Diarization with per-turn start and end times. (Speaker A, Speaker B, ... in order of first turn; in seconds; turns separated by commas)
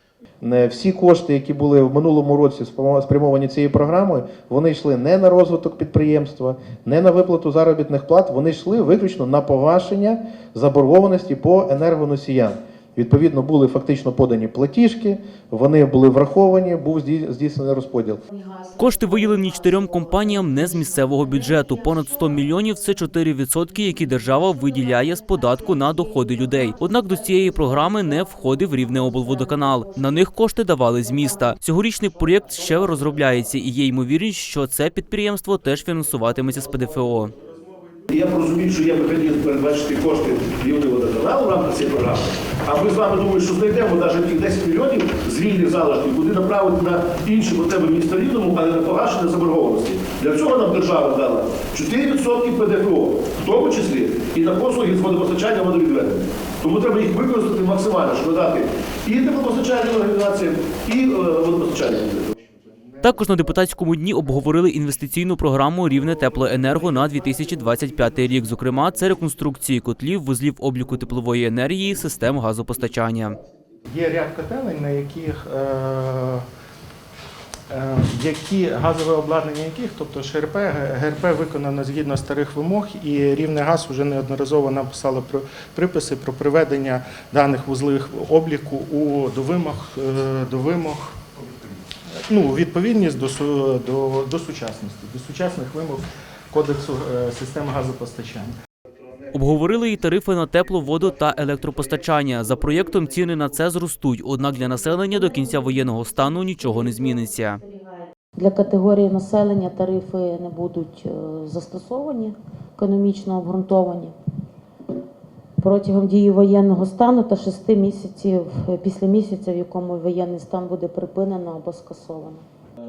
Speaker A: 0.4-18.2, Speaker B: 18.3-22.6, Speaker C: 18.8-37.3, Speaker B: 23.9-31.5, Speaker D: 38.1-62.3, Speaker C: 63.0-73.4, Speaker E: 73.9-76.5, Speaker E: 77.7-91.2, Speaker E: 92.3-98.5, Speaker C: 99.3-107.6, Speaker B: 105.1-114.1, Speaker B: 115.6-122.4